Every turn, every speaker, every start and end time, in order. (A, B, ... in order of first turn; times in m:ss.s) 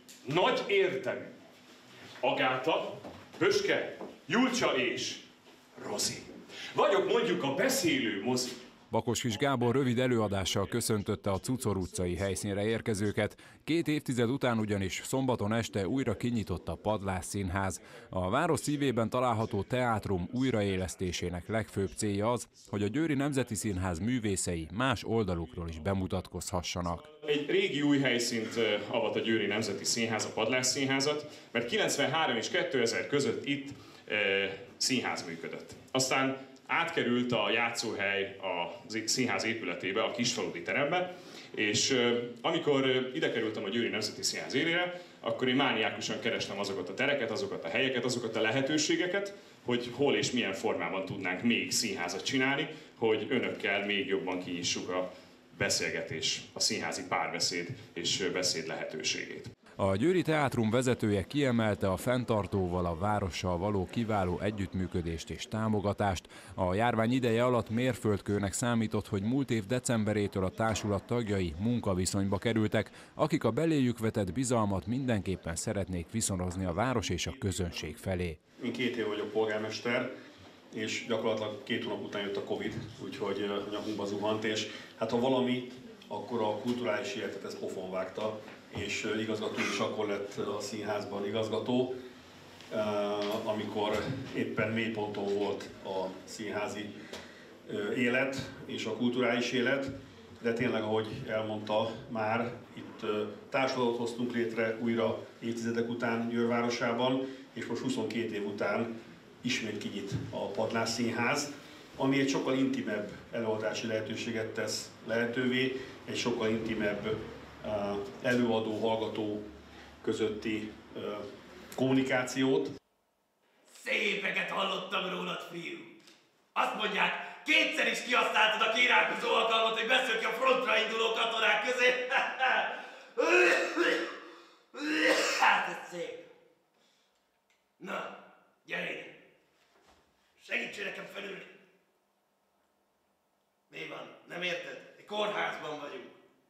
0:00.2-0:01.3 A
0:02.2-0:05.2 A
0:05.8-0:08.5 A
0:08.9-0:27.1 B
0:27.2-0:59.5 A
0:59.8-1:18.4 B
1:18.6-1:20.1 C
1:20.7-1:31.9 C
1:32.7-1:36.9 C
1:37.6-1:39.9 C
1:40.4-1:48.9 C
1:49.4-1:59.4 C
2:00.0-2:01.2 C
2:01.7-2:02.7 C
2:03.7-2:05.9 D
2:06.5-2:14.1 D
2:14.7-2:16.2 D
2:17.8-2:18.1 D
2:18.6-2:19.1 D
2:20.4-2:21.5 D
2:23.7-2:26.2 D